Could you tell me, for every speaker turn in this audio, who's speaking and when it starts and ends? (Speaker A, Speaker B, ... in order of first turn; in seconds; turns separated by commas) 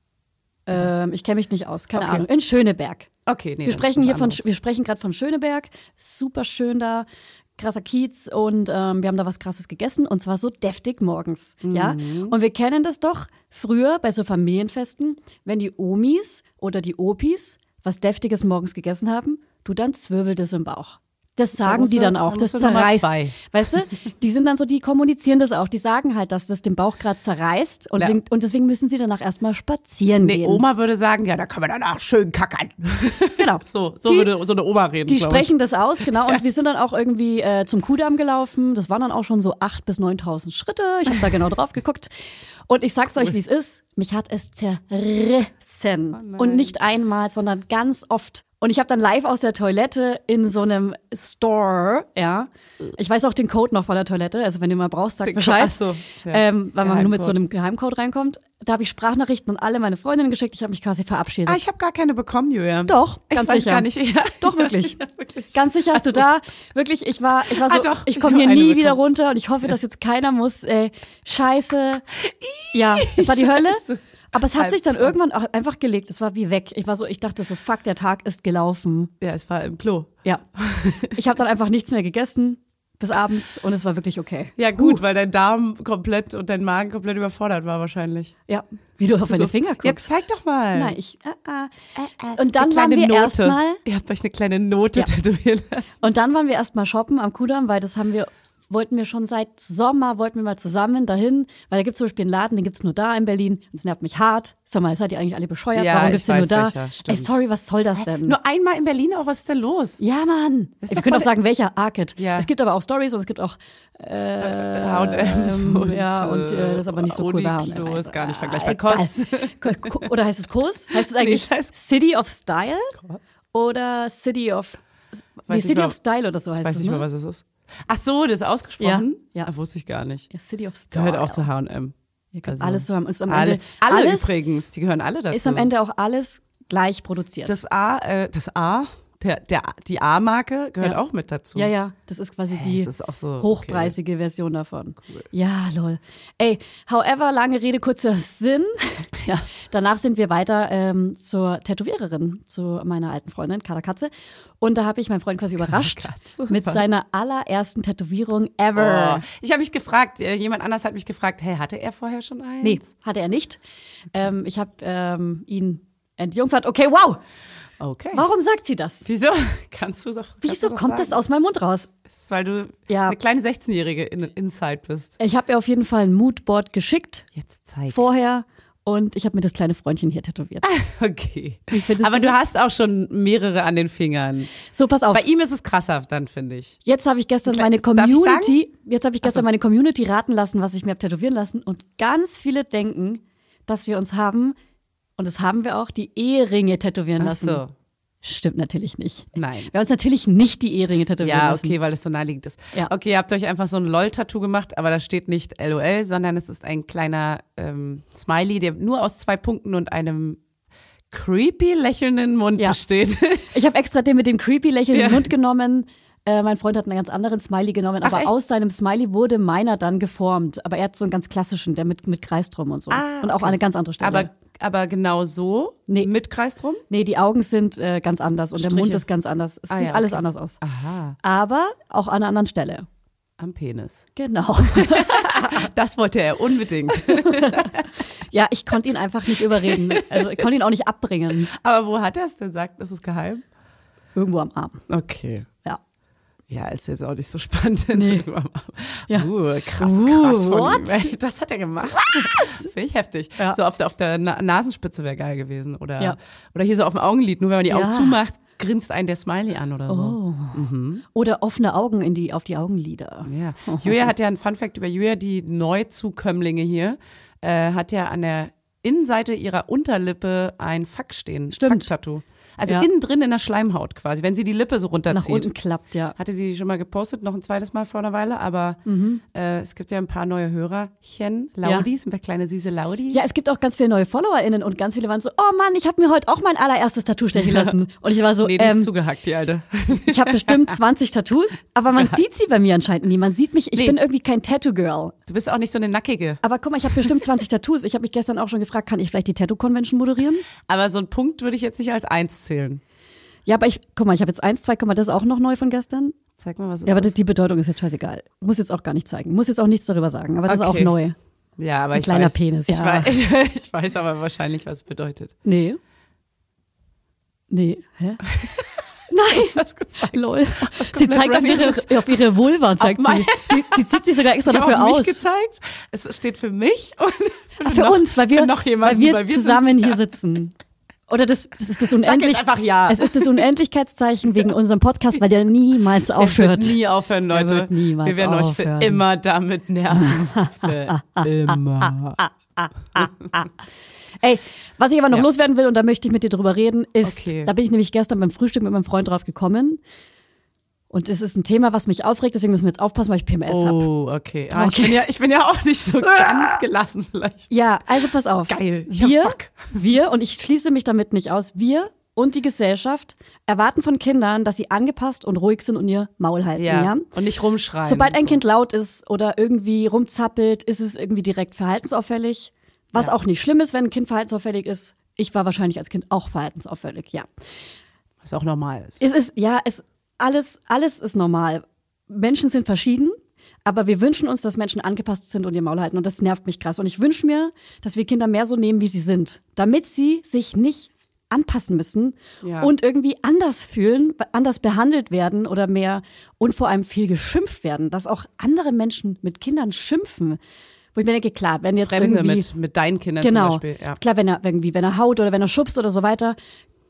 Speaker A: 0.7-3.1, Speaker B: 1.9-2.2, Speaker B: 3.3-4.5, Speaker A: 3.6-7.1, Speaker A: 7.6-30.6, Speaker B: 11.6-12.3, Speaker B: 21.6-23.4, Speaker B: 30.2-35.5, Speaker A: 33.4-34.3, Speaker A: 35.1-61.6, Speaker B: 36.0-36.4, Speaker B: 46.1-46.7, Speaker B: 55.2-57.4, Speaker B: 61.5-66.3, Speaker A: 62.9-65.0, Speaker A: 65.5-72.0, Speaker B: 67.5-69.0, Speaker B: 72.2-75.2, Speaker A: 72.7-79.1, Speaker B: 79.2-81.2, Speaker A: 81.1-85.0, Speaker B: 84.6-88.3, Speaker A: 88.5-90.0, Speaker B: 89.3-91.0, Speaker A: 90.7-93.8, Speaker B: 92.0-95.9, Speaker A: 96.0-108.4, Speaker B: 105.8-107.4, Speaker B: 108.0-110.0, Speaker A: 110.0-122.9, Speaker B: 110.8-111.3, Speaker B: 112.2-112.5, Speaker B: 114.4-120.1, Speaker B: 120.9-121.7, Speaker B: 122.9-123.3, Speaker A: 123.5-124.8, Speaker A: 125.5-127.1, Speaker B: 125.5-126.0, Speaker B: 126.6-130.3, Speaker A: 128.8-129.5, Speaker A: 130.3-131.5, Speaker B: 130.9-135.7, Speaker A: 132.3-134.3, Speaker A: 135.3-137.6, Speaker B: 137.5-141.7, Speaker A: 141.6-149.1, Speaker B: 142.5-143.9, Speaker B: 149.2-149.5, Speaker A: 149.6-159.2, Speaker B: 155.6-156.8, Speaker B: 158.8-162.9, Speaker A: 162.6-163.6, Speaker A: 164.1-167.2, Speaker B: 167.8-168.2, Speaker A: 168.1-169.0, Speaker B: 169.0-171.2, Speaker A: 170.4-171.9, Speaker B: 172.1-175.2, Speaker A: 172.9-173.2, Speaker A: 175.2-177.3, Speaker B: 177.3-178.0, Speaker A: 177.9-180.7, Speaker B: 180.6-184.5, Speaker A: 181.7-182.4, Speaker A: 184.7-185.2, Speaker B: 185.1-186.8, Speaker A: 186.8-194.6, Speaker B: 187.5-188.6, Speaker A: 195.2-197.6, Speaker B: 197.2-197.7, Speaker A: 198.2-201.8, Speaker B: 199.3-199.7, Speaker B: 201.2-210.4, Speaker B: 211.1-213.5, Speaker A: 213.5-224.3, Speaker B: 214.9-215.3, Speaker B: 218.0-218.3, Speaker B: 222.9-226.8, Speaker A: 226.9-230.6, Speaker B: 228.6-229.1, Speaker B: 229.7-231.2, Speaker A: 231.2-232.9, Speaker B: 233.4-234.1, Speaker A: 234.2-235.7, Speaker B: 234.7-237.9, Speaker A: 236.9-237.7, Speaker A: 238.2-241.5, Speaker B: 239.6-240.4, Speaker B: 241.5-243.4, Speaker A: 244.2-244.8, Speaker B: 244.9-245.5, Speaker B: 246.5-261.0, Speaker A: 247.9-248.3, Speaker A: 249.1-251.1, Speaker A: 252.0-252.7, Speaker A: 257.7-258.2, Speaker A: 259.9-264.1, Speaker B: 263.2-275.5, Speaker A: 271.5-271.9, Speaker A: 275.1-276.1, Speaker B: 276.2-278.8, Speaker A: 278.9-279.2, Speaker B: 279.3-283.2, Speaker A: 283.1-288.9, Speaker B: 287.4-287.7, Speaker B: 288.4-290.8, Speaker A: 290.0-295.1, Speaker B: 291.9-292.2, Speaker B: 295.3-296.4, Speaker A: 296.4-300.4, Speaker B: 300.7-302.8, Speaker A: 303.5-306.2, Speaker B: 306.4-307.1, Speaker A: 306.9-311.2, Speaker B: 310.5-311.0, Speaker B: 311.6-315.3, Speaker A: 311.9-313.1, Speaker A: 315.4-315.8, Speaker A: 317.5-318.2, Speaker B: 318.3-318.8, Speaker A: 319.1-325.2, Speaker B: 319.4-322.2, Speaker B: 322.8-330.0, Speaker A: 327.6-330.5, Speaker A: 331.1-336.8, Speaker B: 332.0-333.4, Speaker B: 336.2-342.2, Speaker A: 337.3-339.0, Speaker A: 339.9-343.5, Speaker A: 344.2-349.8, Speaker B: 347.0-347.5, Speaker A: 350.9-353.8, Speaker B: 353.5-357.5, Speaker A: 354.5-355.0, Speaker A: 356.1-356.6, Speaker A: 357.5-367.1, Speaker B: 358.5-359.8, Speaker B: 366.6-368.4, Speaker A: 367.8-377.3, Speaker B: 378.2-379.0, Speaker A: 379.0-400.4, Speaker B: 392.4-392.7, Speaker A: 400.9-402.5, Speaker B: 401.9-404.0, Speaker A: 403.2-406.4